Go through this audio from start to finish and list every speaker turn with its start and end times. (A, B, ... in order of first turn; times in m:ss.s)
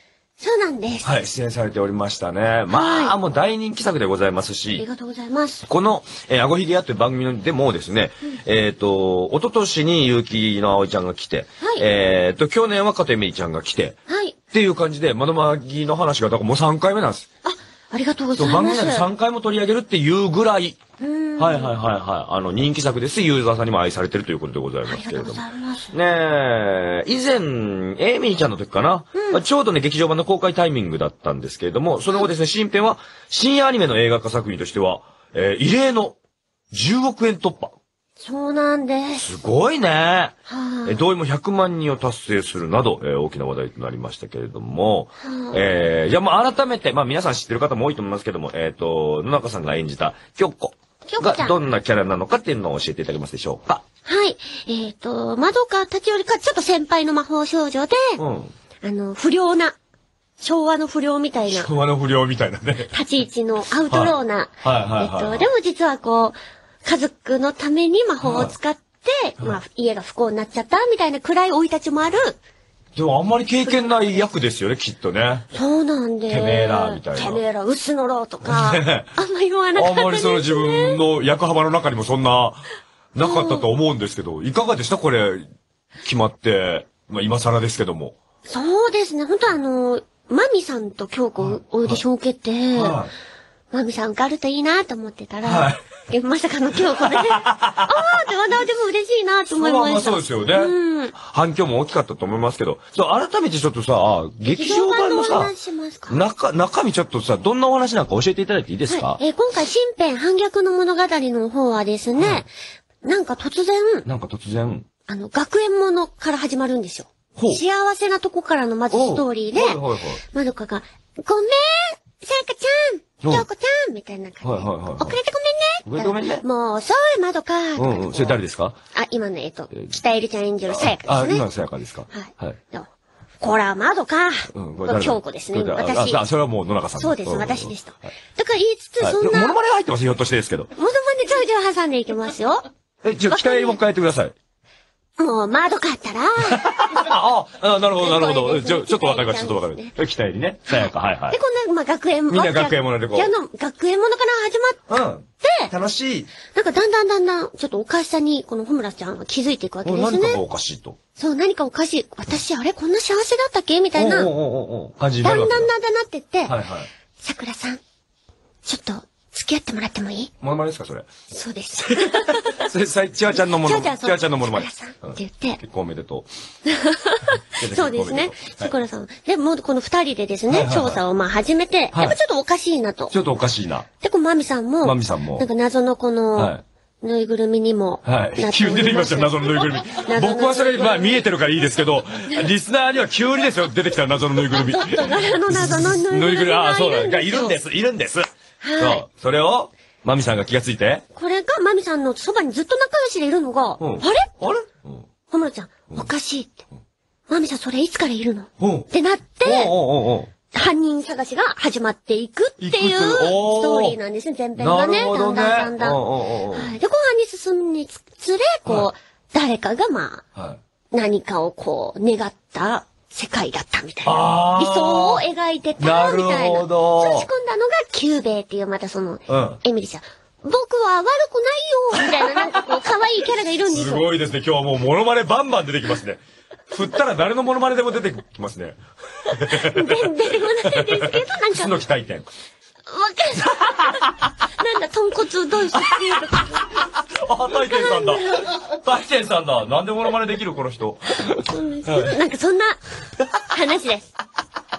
0:00.4-0:01.1 A
0:01.0-0:04.8 B
0:02.7-0:03.2 A
0:04.8-0:05.6 A
0:05.7-0:14.0 B
0:14.1-0:14.4 A
0:14.5-0:17.2 B
0:17.4-0:19.1 A
0:18.4-0:20.8 B
0:21.0-0:21.8 A
0:21.4-0:36.2 B
0:24.8-0:25.9 A
0:29.2-0:29.4 A
0:36.7-0:37.7 B
0:38.2-0:39.3 A
0:39.2-0:53.8 B
0:40.5-0:41.0 A
0:45.2-0:45.6 A
0:51.0-0:51.5 A
0:54.0-0:58.2 A
0:58.2-0:58.5 B
0:58.8-0:59.8 A
1:00.4-1:01.7 A
1:01.5-1:02.9 B
1:02.9-1:12.4 A
1:03.9-1:05.5 B
1:08.2-1:08.5 B
1:13.0-1:15.5 B
1:15.5-1:21.0 A
1:16.3-1:17.4 B
1:18.4-1:19.2 B
1:19.7-1:25.5 B
1:23.2-1:23.6 A
1:26.0-1:28.2 B
1:28.4-1:33.0 A
1:31.4-1:32.0 B
1:32.7-1:33.1 B
1:33.7-1:41.1 A
1:35.4-1:35.8 B
1:37.0-1:37.9 B
1:39.5-1:45.5 B
1:44.4-1:46.2 A
1:46.1-1:49.2 B
1:48.9-1:52.5 A
1:52.2-1:52.4 B
1:53.0-1:54.0 A
1:54.0-1:54.8 B
1:55.1-1:59.8 A
1:57.4-1:57.6 B
1:58.9-2:00.2 B
2:00.3-2:08.4 A
2:04.4-2:05.2 B
2:05.8-2:06.4 B
2:07.8-2:08.8 B
2:08.9-2:11.4 A
2:10.7-2:12.6 B
2:12.1-2:12.9 A
2:13.4-2:16.2 A
2:14.5-2:18.1 B
2:17.0-2:19.6 A
2:19.0-2:20.7 B
2:20.7-2:22.6 A
2:23.0-2:24.3 B
2:23.3-2:23.8 A
2:25.2-2:27.1 A
2:26.5-2:31.4 B
2:28.0-2:29.9 A
2:30.7-2:34.8 A
2:32.3-2:33.3 B
2:34.9-2:36.3 B
2:35.4-2:35.7 A
2:36.5-2:40.4 A
2:39.8-2:41.0 B
2:41.2-2:44.3 A
2:43.9-2:45.7 B
2:45.2-2:46.6 A
2:46.5-2:46.9 B
2:47.2-2:47.8 A
2:48.6-2:50.3 A
2:50.4-2:51.1 B
2:51.3-2:52.6 A
2:51.9-2:56.3 B
2:53.3-2:55.6 A
2:56.6-3:03.1 A
2:57.5-2:58.7 B
3:00.5-3:01.0 B
3:01.9-3:02.2 B
3:03.1-3:03.8 B
3:04.0-3:11.2 A
3:04.8-3:05.4 B
3:06.4-3:06.6 B
3:08.0-3:18.3 B
3:14.5-3:17.6 A
3:18.6-3:19.0 A
3:18.8-3:21.0 B
3:21.2-3:24.4 A
3:23.8-3:25.0 B
3:25.3-3:26.6 A
3:27.3-3:29.7 A
3:28.6-3:28.9 B
3:29.4-3:30.3 B
3:30.5-3:40.2 A
3:32.6-3:34.0 B
3:34.6-3:36.7 B
3:40.9-3:54.0 A
3:44.0-3:45.2 B
3:45.8-3:47.3 B
3:49.3-3:49.6 B
3:52.0-3:52.8 B
3:53.7-4:00.1 B
3:59.5-4:01.7 A
4:00.6-4:02.3 B
4:02.8-4:04.0 A
4:03.5-4:04.2 B
4:04.6-4:06.7 A
4:05.7-4:12.2 B
4:07.5-4:08.6 A
4:11.3-4:12.8 A
4:13.5-4:14.1 A